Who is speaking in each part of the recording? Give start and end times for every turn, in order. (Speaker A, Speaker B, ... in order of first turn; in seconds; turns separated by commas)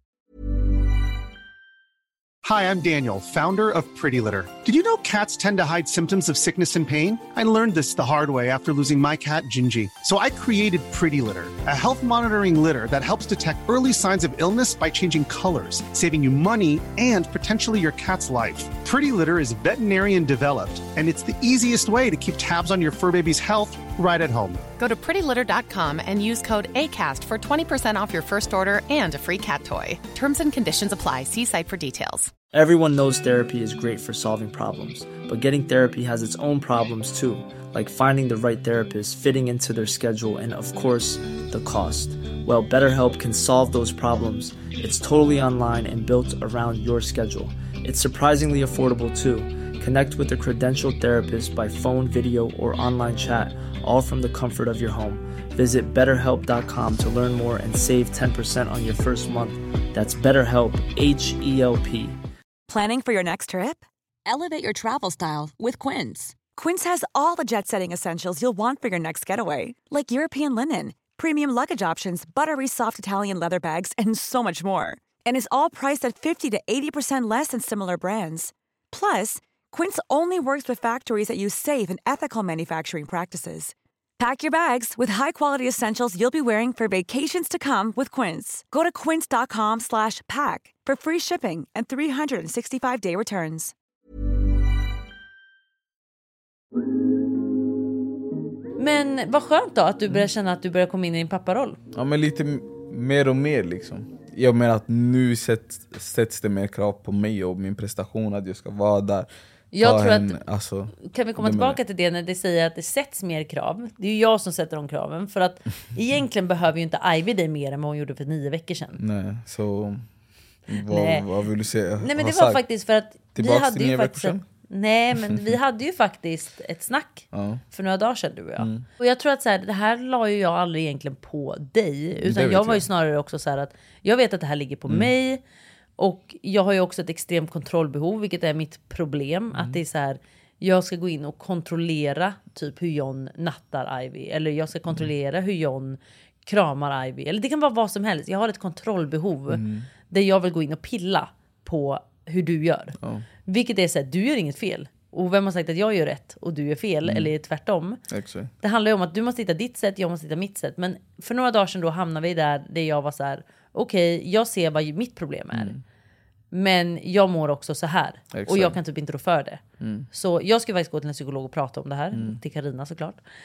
Speaker A: 2.4-24.6, Speaker B: 24.8-32.3, Speaker C: 32.5-62.2, Speaker D: 62.7-93.7, Speaker E: 98.8-101.8, Speaker F: 101.9-111.8, Speaker E: 109.7-110.4, Speaker E: 111.0-119.0, Speaker F: 119.0-120.0, Speaker F: 120.7-122.6, Speaker E: 120.9-121.2, Speaker E: 122.0-135.4, Speaker F: 123.3-124.4, Speaker F: 127.3-127.6, Speaker F: 128.6-128.8, Speaker F: 132.2-132.8, Speaker E: 136.0-158.0, Speaker F: 149.5-149.9, Speaker F: 153.0-153.2, Speaker F: 157.0-157.3, Speaker F: 158.1-158.5, Speaker E: 158.6-165.7, Speaker F: 165.5-165.8, Speaker E: 166.5-173.2, Speaker F: 168.3-168.8, Speaker F: 169.8-170.1, Speaker F: 172.1-172.4